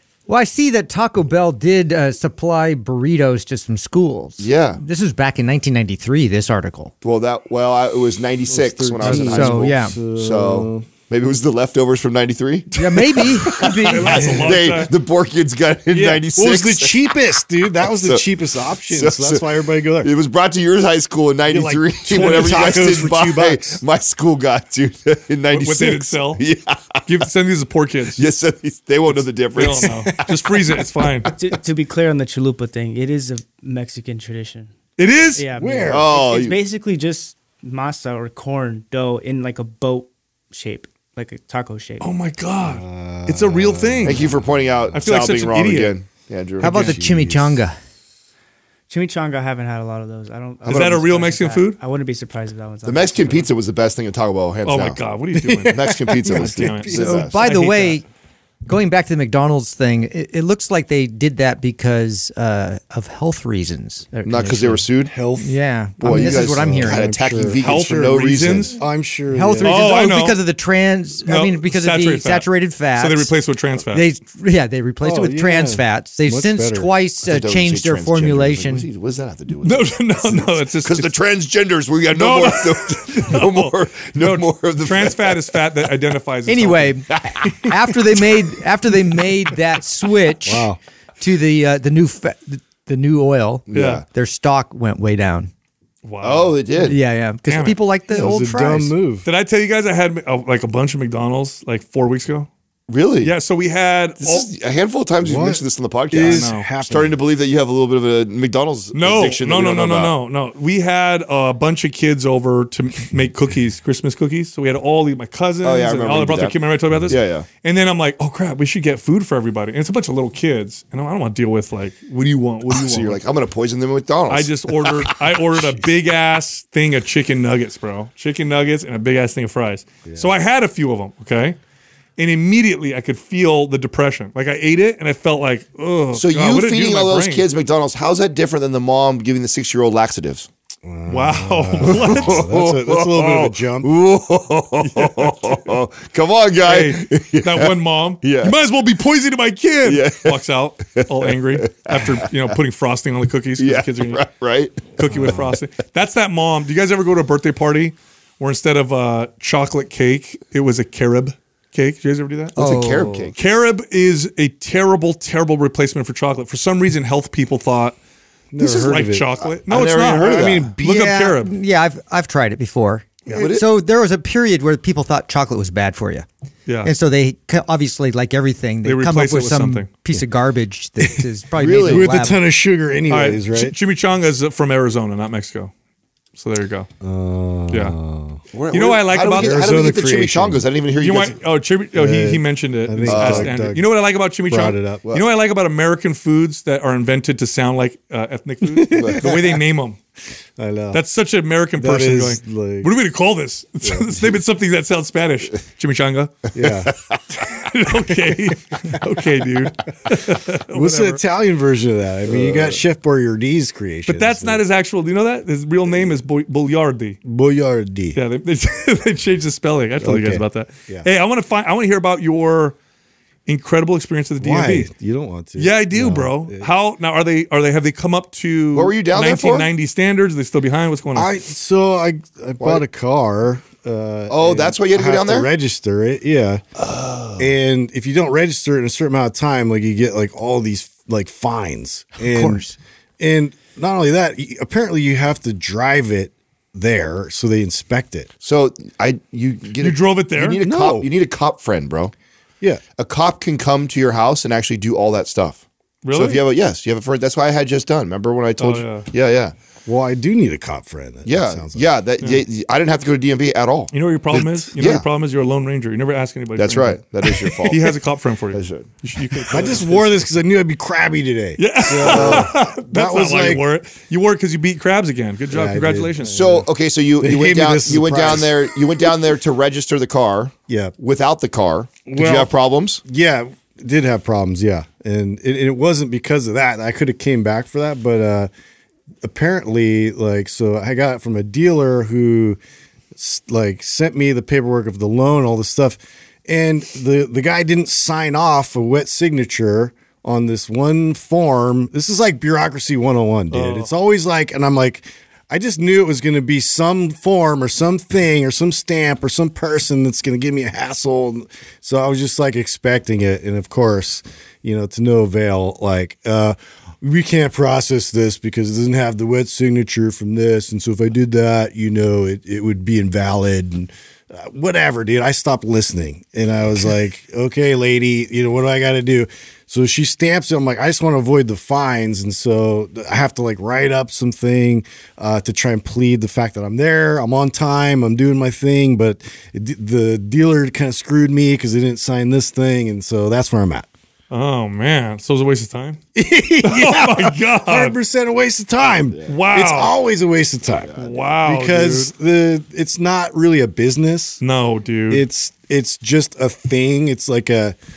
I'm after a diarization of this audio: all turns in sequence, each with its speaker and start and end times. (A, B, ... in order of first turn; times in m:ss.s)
0:00.3-0:06.9 A
0:04.4-0:04.8 B
0:07.0-0:17.1 B
0:08.5-0:10.9 C
0:09.0-0:10.0 A
0:12.7-0:14.5 A
0:12.8-0:15.0 D
0:14.1-0:14.5 C
0:15.9-0:20.1 C
0:17.9-0:18.2 B
0:18.9-0:27.3 B
0:21.5-0:23.8 C
0:25.5-0:26.4 D
0:27.0-0:28.3 D
0:28.2-0:31.3 B
0:29.1-0:31.3 D
0:29.6-0:30.2 C
0:31.4-0:34.7 E
0:35.0-0:35.5 D
0:35.4-0:42.1 E
0:35.5-0:36.1 C
0:35.9-0:36.6 B
0:42.0-0:44.3 D
0:42.6-0:45.0 C
0:44.0-0:47.0 B
0:44.9-0:45.9 D
0:46.6-0:47.8 A
0:46.6-0:47.6 C
0:48.9-0:53.5 E
0:50.6-0:51.8 D
0:52.8-0:55.0 B
0:54.6-0:58.0 D
0:55.3-0:57.2 C
0:55.7-0:57.3 B
0:56.9-0:58.0 A
0:58.6-1:04.8 A
1:04.2-1:05.1 B
1:05.0-1:08.2 C
1:05.4-1:07.2 A
1:06.0-1:08.8 B
1:07.6-1:08.8 D
1:08.7-1:09.8 C
1:09.3-1:13.3 A
1:09.6-1:10.4 D
1:11.2-1:14.0 D
1:13.9-1:18.9 A
1:15.0-1:16.9 C
1:17.2-1:25.6 B
1:19.6-1:21.1 D
1:22.1-1:27.0 D
1:26.5-1:35.5 A
1:27.1-1:28.0 B
1:30.4-1:30.8 C
1:33.7-1:34.0 B
1:33.7-1:34.0 D
1:36.0-1:36.6 D
1:36.2-1:37.0 B
1:36.8-1:38.9 A
1:37.5-1:37.8 D
1:38.1-1:39.2 C
1:39.2-1:42.5 D
1:42.9-1:43.3 B
1:43.2-1:44.5 D
1:44.2-1:50.1 B
1:45.2-1:47.2 C
1:46.2-1:46.7 D
1:48.9-2:03.2 D
1:55.6-1:57.5 B
2:02.7-2:05.4 B
2:04.3-2:11.6 D
2:12.2-2:17.4 D
2:16.1-2:20.5 B
2:20.8-2:23.9 C
2:21.1-2:22.4 D
2:21.8-2:28.5 B
2:24.8-2:25.8 D
2:26.6-2:34.2 D
2:29.8-2:30.4 B
2:31.0-2:32.3 B
2:33.6-2:35.3 B
2:34.9-2:42.6 D
2:35.1-2:35.5 C
2:42.6-2:43.3 A
2:42.6-2:43.4 B
2:43.3-2:48.0 D
2:48.5-2:49.5 C
2:48.6-2:51.5 D
2:49.7-2:50.7 B
2:50.2-2:51.2 C
2:50.8-2:56.2 A
2:53.3-2:53.7 B
2:56.7-2:56.9 D
2:56.8-3:02.4 A
2:58.8-2:59.9 D
3:01.6-3:02.2 B
3:01.8-3:03.8 C
3:03.1-3:05.7 D
3:06.4-3:06.9 D
3:07.0-3:08.4 C
3:07.7-3:08.0 D
3:08.5-3:11.4 B
3:08.7-3:09.7 D
3:09.3-3:10.6 C
3:11.0-3:20.0 D
3:11.9-3:15.1 C
3:13.1-3:13.5 B
3:18.6-3:19.6 C
3:18.9-3:19.3 B
3:20.6-3:21.0 C
3:20.9-3:26.5 D
3:21.8-3:22.9 C
3:23.8-3:24.4 C
3:26.5-3:26.9 C
3:27.3-3:31.2 D
3:28.1-3:29.0 C
3:30.7-3:34.6 C
3:32.3-3:32.8 B
3:34.0-3:37.2 D
3:37.2-3:38.2 C
3:38.1-3:42.8 D
3:40.0-3:41.1 C
3:43.4-3:44.9 D
3:44.4-3:46.7 C
3:45.6-3:51.3 D
3:48.7-3:49.7 B
3:51.1-3:56.6 C
3:54.3-3:55.5 B
3:56.8-3:57.5 B
3:57.4-4:02.7 C
4:02.2-4:02.8 A
4:03.2-4:08.3 C
4:08.4-4:12.1 B
4:09.8-4:10.6 D
4:10.6-4:11.1 C
4:13.0-4:19.5 B
4:16.0-4:16.4 D
4:18.6-4:19.1 D
4:19.8-4:21.9 C
4:21.2-4:23.9 B
4:23.9-4:30.1 D
4:24.8-4:25.0 B
4:26.6-4:28.0 B
4:28.5-4:29.8 B
4:29.5-4:33.6 C
4:31.6-4:36.4 D
4:31.9-4:32.5 B
4:35.5-4:36.7 C
4:36.3-4:43.0 B
4:37.2-4:39.2 C
4:40.7-4:40.9 C
4:42.1-4:42.5 C
4:43.0-4:48.5 C
4:49.2-4:52.6 C
4:53.1-5:43.9 C
5:03.5-5:03.9 D
5:44.3-5:46.0 D
5:46.1-5:54.4 C
5:46.6-5:48.0 D
5:49.3-5:49.9 D
5:51.0-5:52.1 D
5:54.4-5:55.2 D
5:55.1-5:57.8 C